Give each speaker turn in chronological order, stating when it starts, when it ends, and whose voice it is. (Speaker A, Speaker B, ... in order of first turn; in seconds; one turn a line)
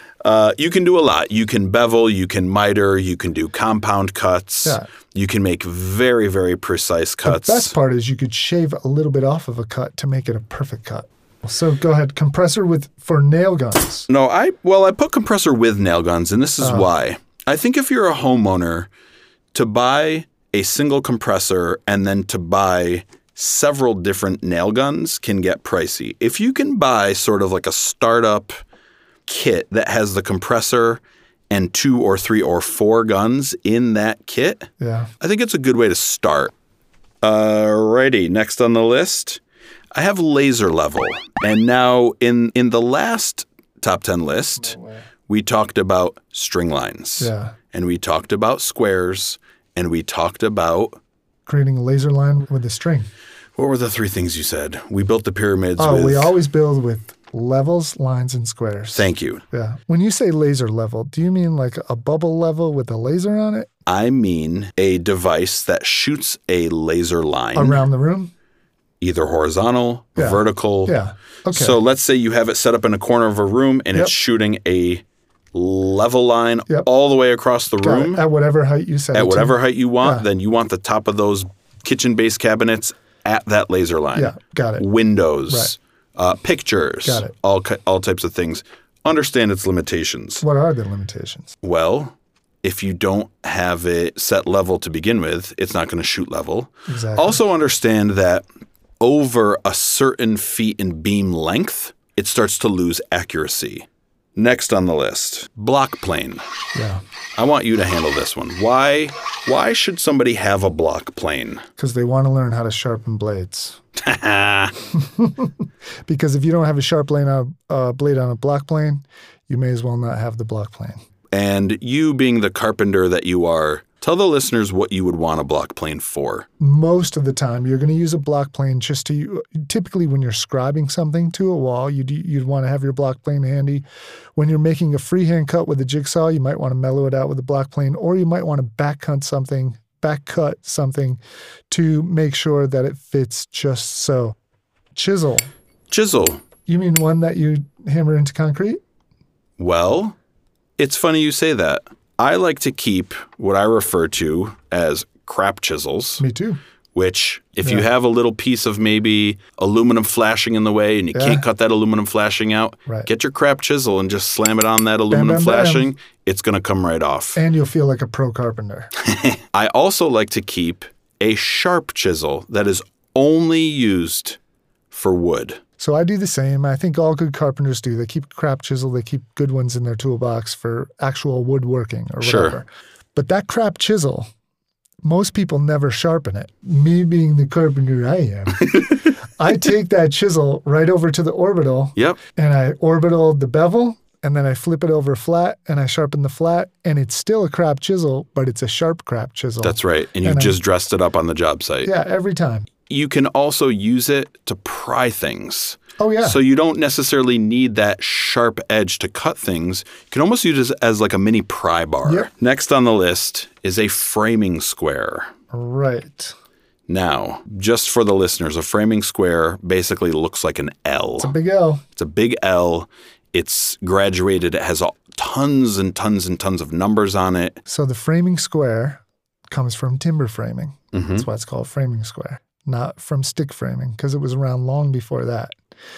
Speaker A: 0.2-7.7
Speaker B: 7.2-14.1
Speaker A: 14.1-18.9
Speaker B: 16.6-16.9
Speaker A: 19.5-28.6
Speaker A: 29.3-36.5
Speaker B: 34.8-35.1
Speaker A: 37.2-39.4
Speaker A: 39.9-44.8
Speaker B: 44.6-45.0
Speaker A: 45.3-51.0
Speaker B: 47.2-47.5
Speaker B: 51.5-53.1
Speaker A: 53.5-56.3
Speaker B: 55.8-63.7
Speaker A: 58.9-59.4
Speaker A: 63.9-67.8
Speaker B: 67.5-68.3
Speaker A: 69.0-70.9
Speaker B: 70.2-71.8
Speaker A: 71.5-78.2
Speaker B: 77.8-80.2
Speaker A: 79.1-90.4
Speaker B: 84.1-84.8
Speaker B: 85.5-85.7
Speaker B: 87.0-87.3
Speaker B: 90.4-91.5
Speaker A: 91.6-98.4
Speaker B: 96.9-97.4
Speaker A: 99.0-106.4
Speaker B: 106.7-107.0
Speaker A: 107.3-111.6
Speaker B: 111.8-113.8
Speaker A: 114.0-114.7
Speaker B: 115.0-115.5
Speaker B: 116.0-121.0
Speaker A: 121.3-126.5
Speaker B: 126.6-133.8
Speaker B: 134.3-144.3
Speaker B: 144.9-145.5
Speaker A: 145.9-146.4
Speaker B: 146.7-148.8
Speaker A: 149.6-150.2
Speaker A: 150.8-156.2
Speaker B: 156.2-156.6
Speaker A: 156.9-167.4
Speaker B: 161.1-161.4
Speaker B: 165.1-165.9
Speaker B: 167.3-168.9
Speaker A: 169.0-174.4
Speaker A: 174.9-175.6
Speaker B: 175.8-184.3
Speaker A: 182.2-182.6
Speaker B: 185.0-200.6
Speaker A: 199.6-201.9
Speaker B: 201.8-202.7
Speaker A: 202.9-215.3
Speaker B: 206.0-206.4
Speaker B: 215.5-216.3
Speaker A: 216.9-221.3
Speaker B: 221.2-221.8
Speaker A: 221.9-227.6
Speaker B: 227.7-235.6
Speaker A: 230.9-231.3